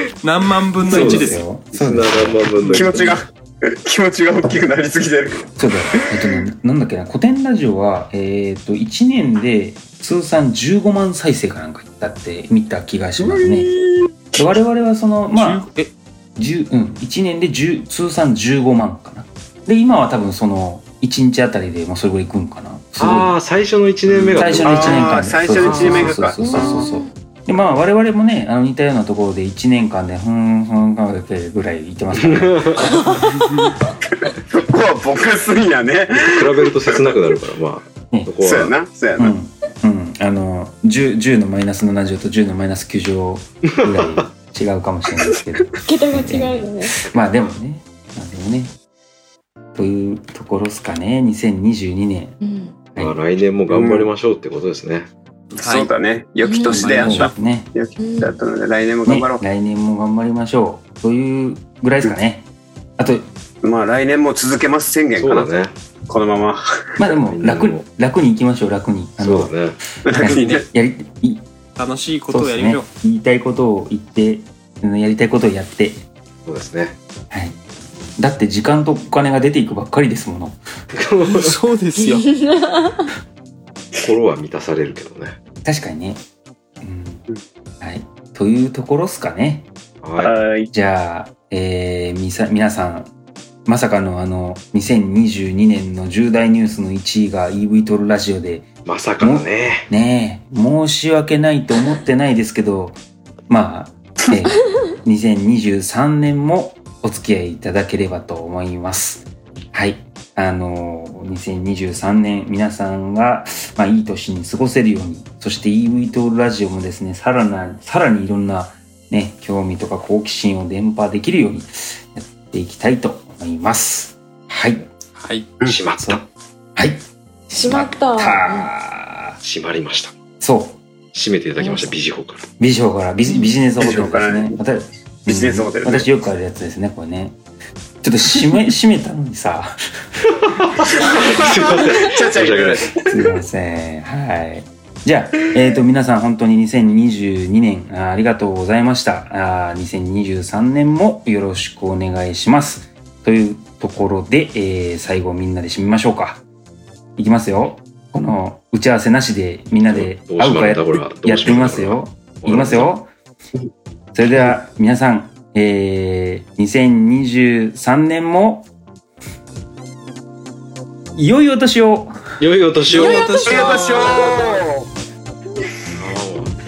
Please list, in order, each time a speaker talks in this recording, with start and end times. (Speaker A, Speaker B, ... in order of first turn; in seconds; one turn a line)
Speaker A: 0.2-1.4
Speaker B: 0.8-2.5
Speaker C: 0.8-3.1
Speaker A: 2.6-2.9
Speaker D: 2.7-6.4
Speaker B: 5.6-13.7
Speaker D: 13.2-14.6
Speaker B: 14.3-15.7
Speaker A: 15.3-15.9
Speaker B: 16.4-23.4
Speaker C: 23.0-26.2
Speaker A: 24.1-24.6
Speaker B: 24.4-32.9
Speaker D: 24.6-26.9
Speaker E: 26.5-27.1
Speaker C: 32.2-32.9
Speaker E: 33.1-33.5
Speaker D: 34.2-37.1
Speaker C: 36.2-38.8
Speaker D: 38.4-39.3
Speaker B: 39.1-48.7
Speaker C: 43.6-44.3
Speaker E: 45.8-46.9
Speaker C: 47.0-47.5
Speaker B: 49.7-52.4
Speaker E: 52.4-52.8
Speaker C: 52.9-55.1
Speaker D: 53.7-54.1
Speaker A: 55.5-55.9
Speaker D: 55.6-59.4
Speaker E: 56.4-56.9
Speaker A: 56.7-57.3
Speaker B: 57.0-57.7
Speaker E: 58.0-58.4
Speaker B: 59.0-62.5
Speaker B: 63.0-63.3
Speaker D: 63.6-65.5
Speaker C: 65.2-65.7
Speaker D: 66.1-67.0
Speaker B: 67.0-71.5
Speaker C: 67.3-67.8
Speaker C: 69.2-69.8
Speaker D: 70.0-70.7
Speaker A: 70.2-70.6
Speaker A: 71.8-72.9
Speaker B: 72.3-76.0
Speaker C: 76.5-77.0
Speaker B: 77.3-77.6
Speaker B: 78.2-80.6
Speaker C: 80.9-81.5
Speaker A: 81.2-82.3
Speaker E: 82.0-83.1
Speaker C: 84.0-85.4
Speaker B: 85.6-86.2
Speaker B: 86.8-87.2
Speaker B: 87.8-89.7
Speaker C: 90.0-90.3
Speaker D: 90.2-90.7
Speaker B: 90.2-93.1
Speaker B: 93.7-103.0
Speaker C: 98.8-99.9
Speaker B: 103.5-124.8
Speaker A: 125.2-125.5
Speaker C: 125.6-126.3
Speaker B: 126.8-127.0
Speaker E: 127.5-128.7
Speaker B: 127.6-129.4
Speaker C: 129.4-130.2
Speaker B: 130.4-130.8
Speaker C: 131.1-132.5
Speaker E: 131.6-131.9
Speaker B: 132.6-137.4
Speaker D: 133.8-134.6
Speaker D: 135.3-136.1
Speaker B: 138.0-140.2
Speaker C: 140.3-142.9
Speaker D: 141.0-143.1
Speaker B: 143.1-156.4
Speaker B: 157.2-163.1
Speaker C: 159.9-162.9
Speaker B: 164.1-168.7
Speaker B: 171.1-172.4
Speaker C: 172.4-173.2
Speaker A: 172.9-174.4
Speaker E: 172.9-174.4
Speaker D: 173.4-174.8
Speaker C: 176.0-176.6